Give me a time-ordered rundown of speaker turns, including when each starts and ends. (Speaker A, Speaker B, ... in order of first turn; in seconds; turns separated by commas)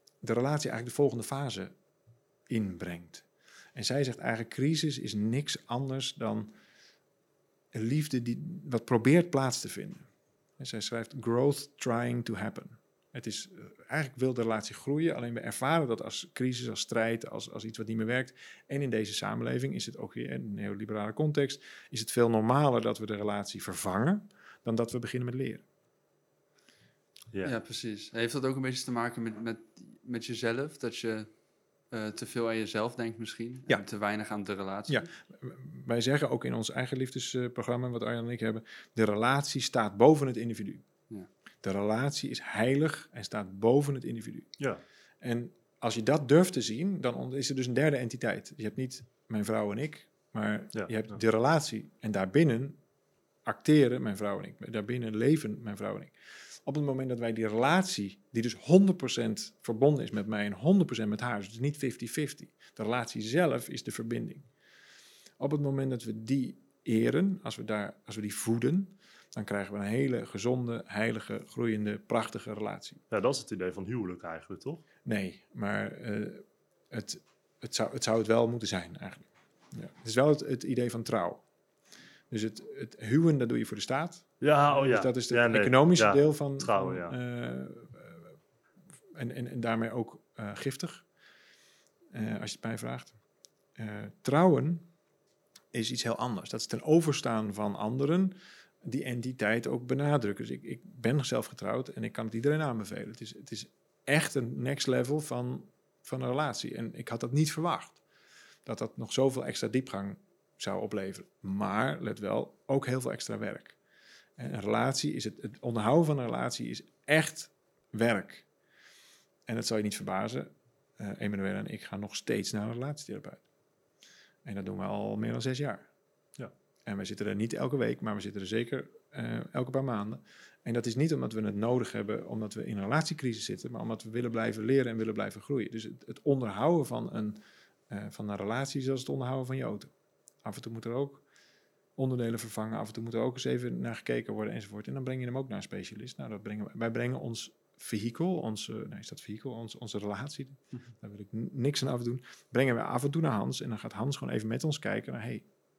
Speaker A: 0.2-1.7, Speaker A: 2.5-6.5, Speaker A: 7.7-10.1, Speaker A: 10.6-25.6, Speaker B: 27.4-31.3, Speaker B: 31.9-35.1, Speaker A: 34.9-40.8, Speaker A: 41.6-44.5, Speaker A: 45.2-52.8, Speaker C: 50.7-51.2, Speaker A: 53.4-56.1, Speaker A: 56.6-64.5, Speaker A: 65.4-73.0, Speaker C: 73.1-74.8, Speaker A: 75.0-81.4, Speaker A: 82.3-88.2, Speaker C: 84.4-87.2, Speaker A: 89.1-91.0, Speaker A: 92.1-93.1, Speaker A: 93.8-94.9, Speaker A: 95.7-108.0, Speaker A: 108.6-113.8, Speaker A: 114.4-118.5, Speaker A: 119.5-123.4, Speaker A: 124.4-125.9, Speaker A: 126.8-139.9, Speaker A: 140.4-141.2, Speaker A: 142.0-155.4